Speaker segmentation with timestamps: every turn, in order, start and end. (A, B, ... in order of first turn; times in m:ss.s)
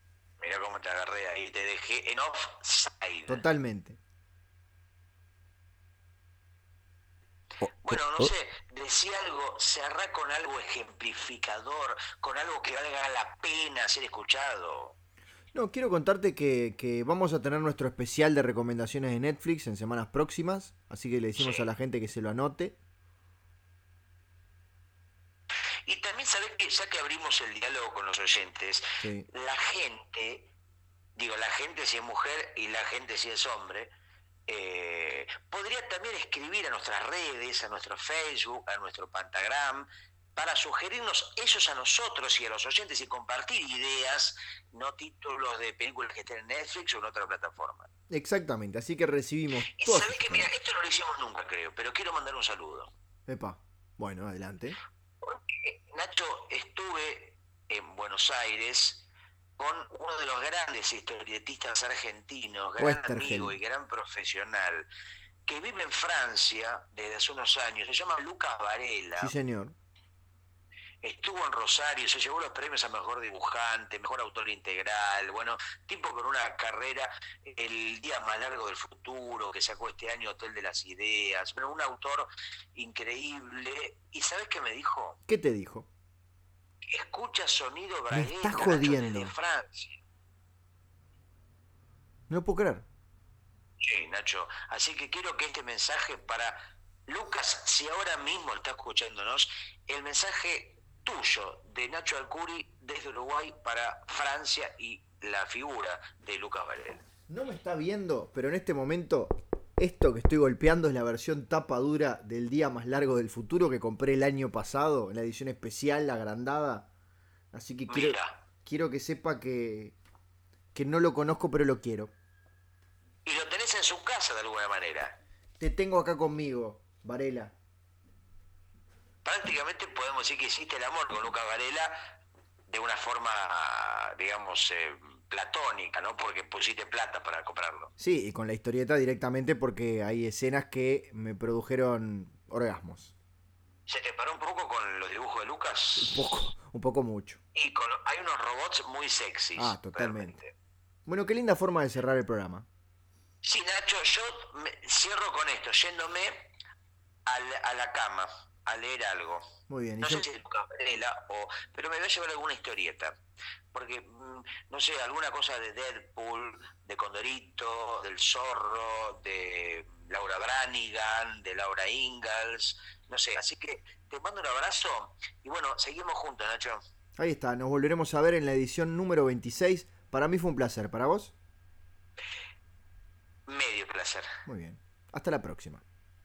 0:00.4-0:03.4 A
0:03.3-0:04.0 B
0:07.8-0:15.0 A
0:07.9-0:08.3 B
0:15.5-0:22.8 B
0:21.4-0:21.7 A
0:25.9-0:30.5 A
0:29.0-0:29.3 B
0:31.2-0:33.9 A
0:34.5-0:47.9 A
0:48.1-0:50.5 B
0:49.7-0:52.9 A
0:53.3-0:54.8 B
0:55.2-0:59.1 A
0:59.6-1:04.9 A
1:02.8-1:03.6 B
1:05.4-1:09.3 A
1:09.2-1:09.8 B
1:11.0-1:25.2 A
1:25.3-1:25.9 B
1:26.8-1:30.0 A
1:28.1-1:29.3 B
1:32.3-1:32.8 B
1:33.8-1:47.0 A
1:47.3-1:56.9 B
1:57.5-2:00.0 B
1:57.9-1:58.4 A
2:00.7-2:02.1 B
2:03.2-2:05.2 A
2:05.6-2:07.5 B
2:09.2-2:12.0 A
2:12.7-2:17.9 A
2:18.0-2:23.1 B
2:23.9-2:26.2 A
2:26.0-2:27.4 B
2:27.6-2:30.5 A
2:29.6-2:30.4 B
2:31.1-2:32.7 B
2:33.4-2:36.5 A
2:37.3-2:39.4 A
2:39.7-2:40.3 B
2:40.0-2:43.2 A
2:43.7-2:56.8 A
2:57.2-3:01.4 B
3:03.5-3:04.3 A
3:04.4-3:05.8 B